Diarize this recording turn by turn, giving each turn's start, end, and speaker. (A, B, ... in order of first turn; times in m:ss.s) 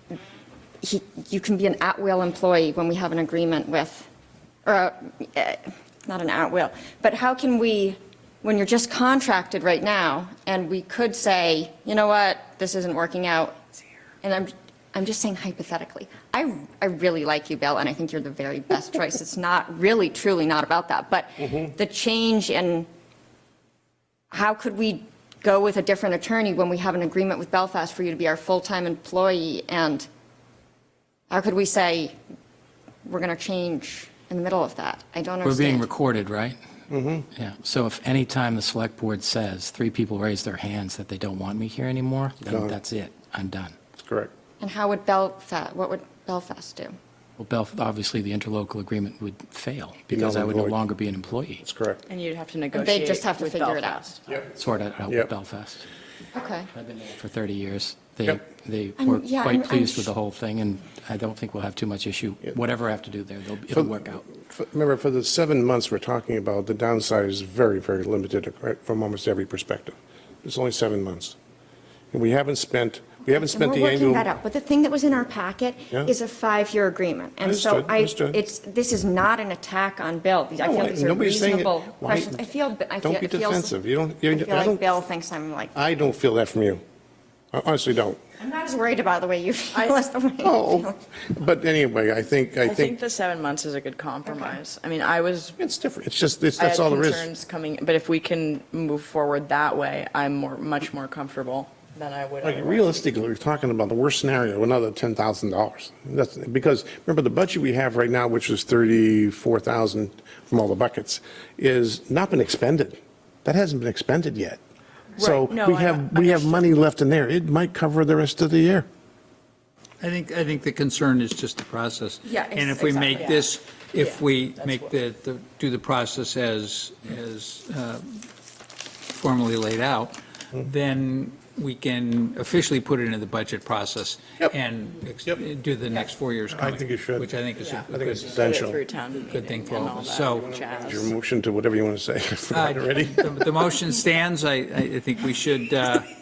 0:00.8-0:04.1 A
0:04.7-0:13.6 A
0:14.2-0:22.9 A
0:24.3-0:30.1 A
0:31.3-0:32.1 A
0:33.0-0:35.8 A
0:35.4-0:36.6 B
0:36.9-0:37.2 C
0:37.3-0:43.8 B
0:42.4-0:42.7 C
0:44.0-0:44.3 C
0:44.6-0:46.9 A
0:47.4-0:51.6 B
0:50.1-0:50.8 C
0:51.6-0:52.0 C
0:52.1-0:54.2 D
0:52.7-0:54.1 A
0:54.4-0:55.8 B
0:56.3-0:56.7 A
0:56.7-1:04.3 B
0:59.0-1:00.1 A
1:03.7-1:11.3 C
1:12.1-1:14.3 C
1:13.4-1:23.8 A
1:17.4-1:18.4 C
1:20.6-1:22.4 C
1:23.0-1:24.8 C
1:24.3-1:25.8 A
1:25.8-1:26.8 C
1:27.5-1:28.2 C
1:28.4-1:31.0 A
1:29.7-1:30.0 D
1:30.4-1:33.0 C
1:32.6-1:35.6 D
1:34.3-1:34.6 A
1:35.6-1:37.3 C
1:36.6-1:43.0 D
1:42.4-1:54.6 C
1:55.2-1:58.9 C
1:55.2-1:56.7 D
2:00.0-2:08.2 E
2:02.3-2:03.4 A
2:03.1-2:04.9 D
2:09.1-2:18.4 E
2:16.5-2:17.3 C
2:17.6-2:21.1 D
2:17.9-2:18.8 C
2:19.1-2:20.5 E
2:20.1-2:23.3 C
2:22.5-2:26.1 E